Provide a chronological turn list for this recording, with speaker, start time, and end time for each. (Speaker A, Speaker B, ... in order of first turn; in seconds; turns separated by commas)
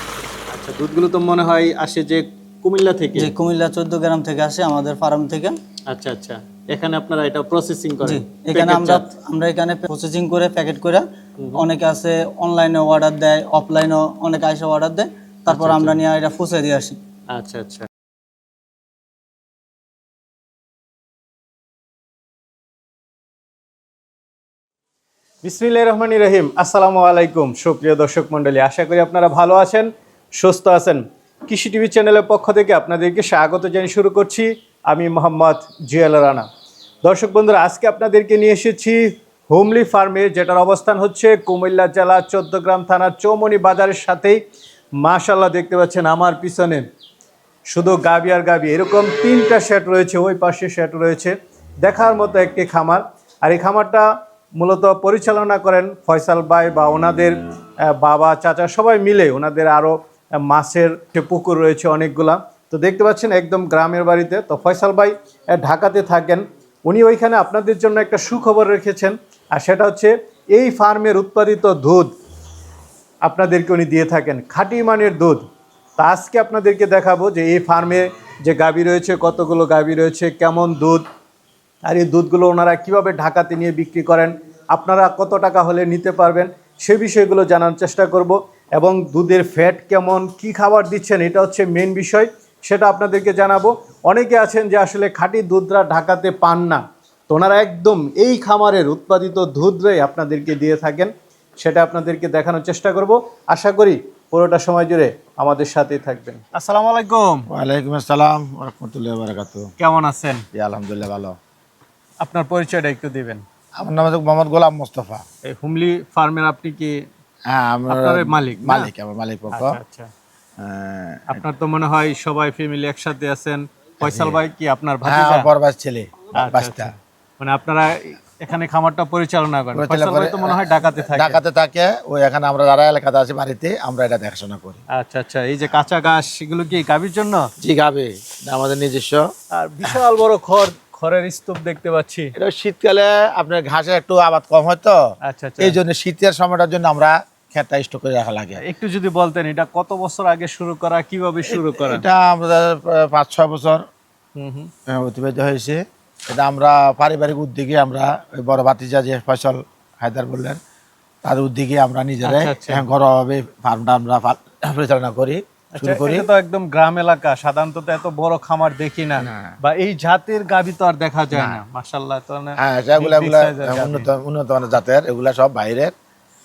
Speaker A: 0.5-3.3, Speaker B: 3.1-5.6, Speaker A: 5.9-9.1, Speaker B: 8.0-17.0, Speaker A: 11.4-11.7, Speaker A: 15.5-16.0, Speaker A: 17.3-17.9, Speaker A: 25.4-36.5, Speaker A: 37.0-44.4, Speaker A: 45.0-46.8, Speaker A: 47.7-72.1, Speaker A: 73.2-75.4, Speaker A: 76.0-81.0, Speaker A: 81.8-107.5, Speaker C: 107.5-109.7, Speaker A: 109.8-110.4, Speaker C: 110.5-111.4, Speaker A: 112.2-113.4, Speaker C: 113.8-115.2, Speaker A: 115.4-117.0, Speaker C: 117.5-119.8, Speaker A: 117.9-118.9, Speaker A: 119.5-120.1, Speaker C: 120.6-121.4, Speaker A: 121.3-125.5, Speaker C: 124.0-124.4, Speaker C: 125.0-126.9, Speaker A: 126.3-131.4, Speaker C: 129.7-134.8, Speaker A: 134.9-137.5, Speaker C: 137.6-139.3, Speaker A: 139.5-142.3, Speaker C: 142.3-145.0, Speaker A: 145.2-145.8, Speaker C: 145.6-148.6, Speaker A: 148.6-152.1, Speaker C: 151.5-153.8, Speaker A: 154.3-154.7, Speaker C: 154.9-160.6, Speaker C: 161.2-166.3, Speaker A: 162.2-162.9, Speaker A: 165.7-174.1, Speaker C: 169.2-169.6, Speaker C: 171.3-171.6, Speaker C: 172.6-175.9